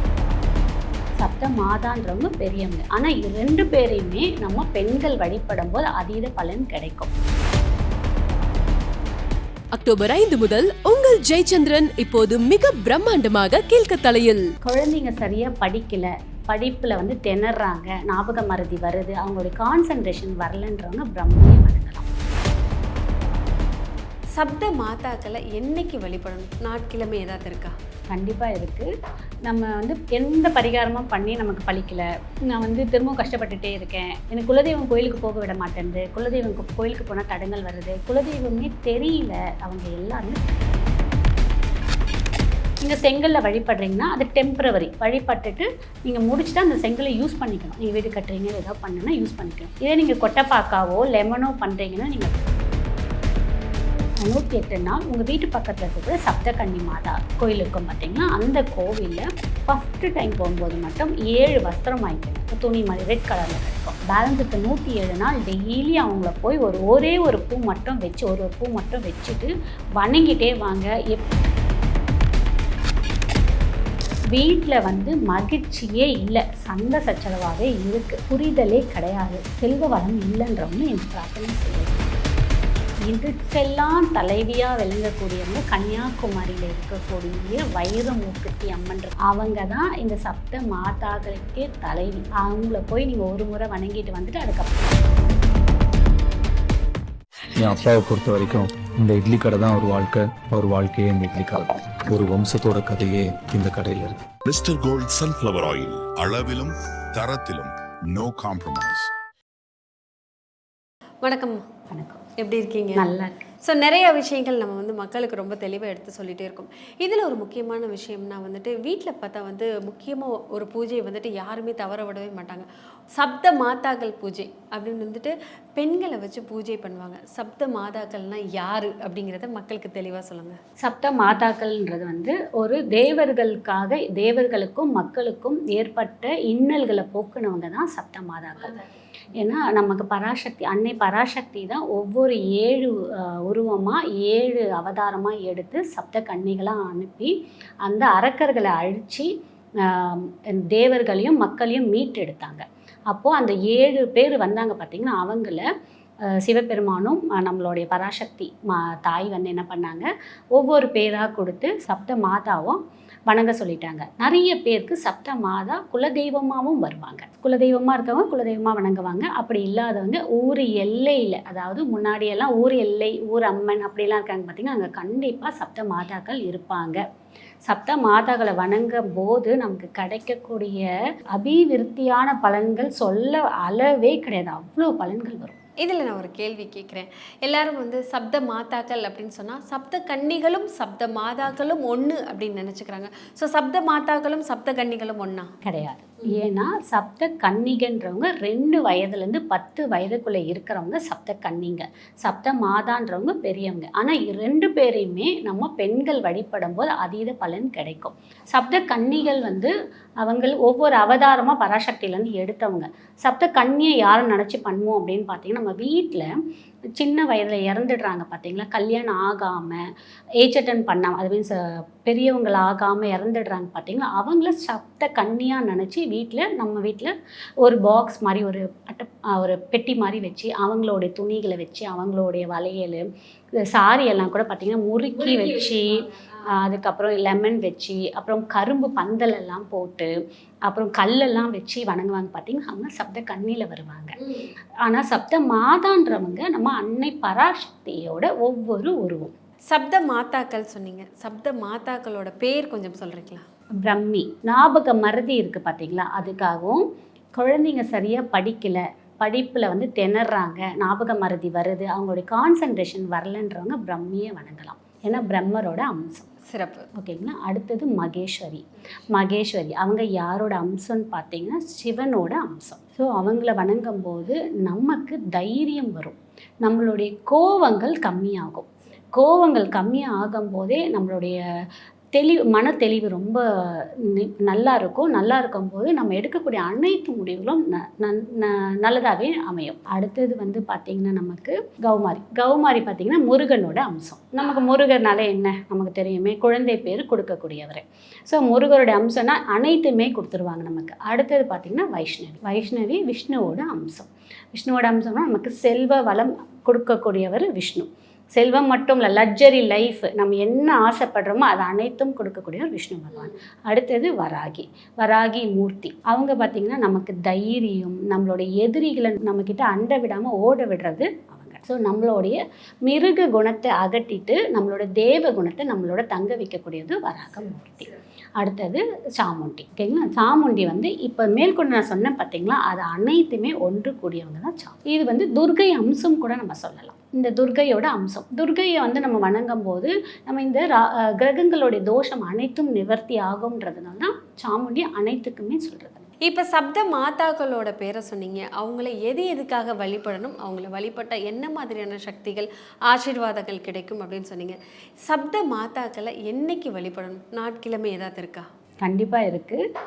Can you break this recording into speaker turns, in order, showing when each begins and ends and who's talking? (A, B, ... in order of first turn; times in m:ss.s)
0:01.2-0:07.1 A
0:09.8-0:14.4 B
0:14.6-0:22.0 A
0:24.4-0:27.8 C
0:28.1-0:28.9 A
0:29.5-0:40.4 A
0:42.8-0:52.3 A
0:54.2-1:11.3 A
1:14.3-1:22.1 A
1:23.1-1:35.0 A
1:37.6-1:44.2 D
1:44.4-1:49.1 E
1:51.2-1:51.6 C
1:51.9-1:52.2 A
1:52.4-1:53.1 C
1:52.9-1:53.4 A
1:53.6-2:10.6 C
2:10.8-2:18.7 A
2:19.4-2:27.3 A
2:27.8-2:29.3 A
2:29.8-2:35.6 A
2:36.3-2:57.0 A
2:57.7-3:05.6 A
3:05.8-3:15.5 C
3:15.6-3:36.3 A
3:37.0-3:39.8 A
3:40.4-3:53.1 A
3:53.7-3:56.0 A
3:56.6-4:00.1 A
4:00.7-4:04.2 A
4:04.8-4:09.3 A
4:09.7-4:13.4 C
4:13.8-4:16.8 A
4:17.4-4:26.3 A
4:26.5-4:26.9 C
4:27.0-4:41.4 A
4:42.1-5:46.1 A
5:46.2-5:58.5 C
5:58.8-5:59.6 A